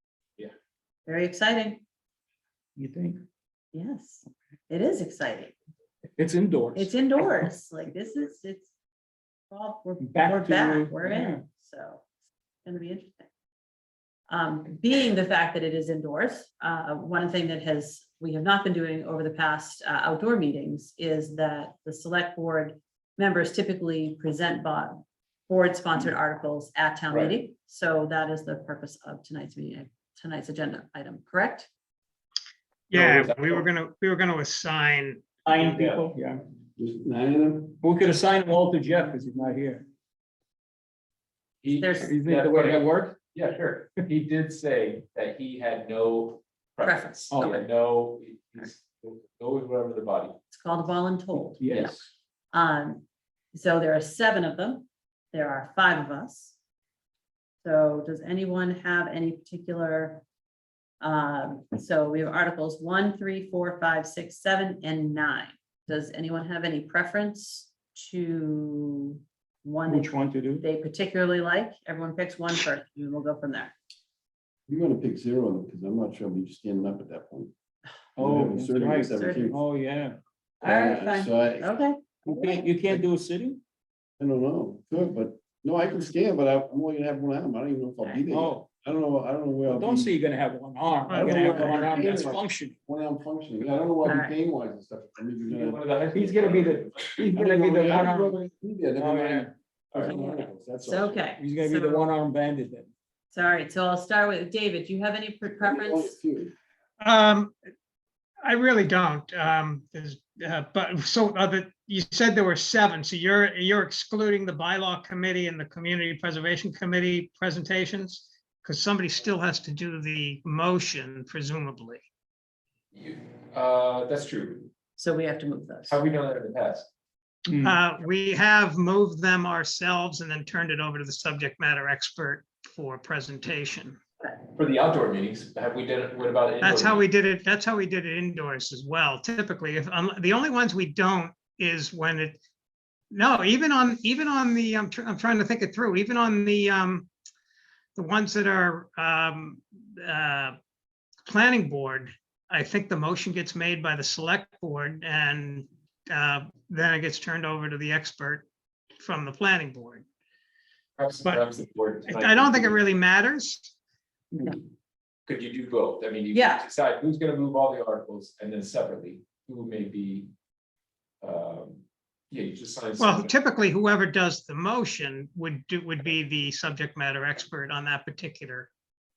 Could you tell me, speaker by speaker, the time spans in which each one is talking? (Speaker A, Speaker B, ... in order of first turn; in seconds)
Speaker A: 1.1-1.8, 3.7-5.5, 6.8-8.7, 9.5-12.0, 12.6-13.3, 14.3-31.7, 41.7-42.2, 46.8-47.6, 50.5-52.0, 52.5-56.5, 57.6-60.2, 61.0-73.7, 79.1-79.5, 80.6-82.7, 94.0-94.3, 100.1-102.1, 103.3-106.2, 125.0-126.0, 166.3-166.7
Speaker B: 2.8-3.2, 6.2-7.4, 10.0-11.4, 35.5-36.4, 37.8-39.9, 42.0-43.2, 47.3-47.6, 51.6-52.0, 69.8-70.6, 78.2-80.2, 82.2-83.6, 88.3-88.6, 89.7-92.7, 96.1-98.4, 99.0-99.5, 101.3-102.9, 127.5-127.8
Speaker C: 27.1-27.3, 32.9-33.7, 35.6-36.0, 41.6-50.4, 95.5-97.2, 122.9-124.7, 125.9-126.9, 134.5-137.0, 161.0-162.8, 165.3-170.3, 171.2-173.3
Speaker D: 32.9-35.5, 91.1-92.0, 107.0-107.5, 108.4-122.0, 127.6-134.0, 136.6-142.4, 143.1-147.1, 147.9-150.6, 151.2-158.4, 159.0-160.0, 162.1-163.7, 173.0-178.7
Speaker E: 36.8-37.8, 74.7-77.5, 78.2-79.6, 80.6-81.7, 84.2-90.1, 91.1-95.8, 97.3-101.3, 105.6-106.5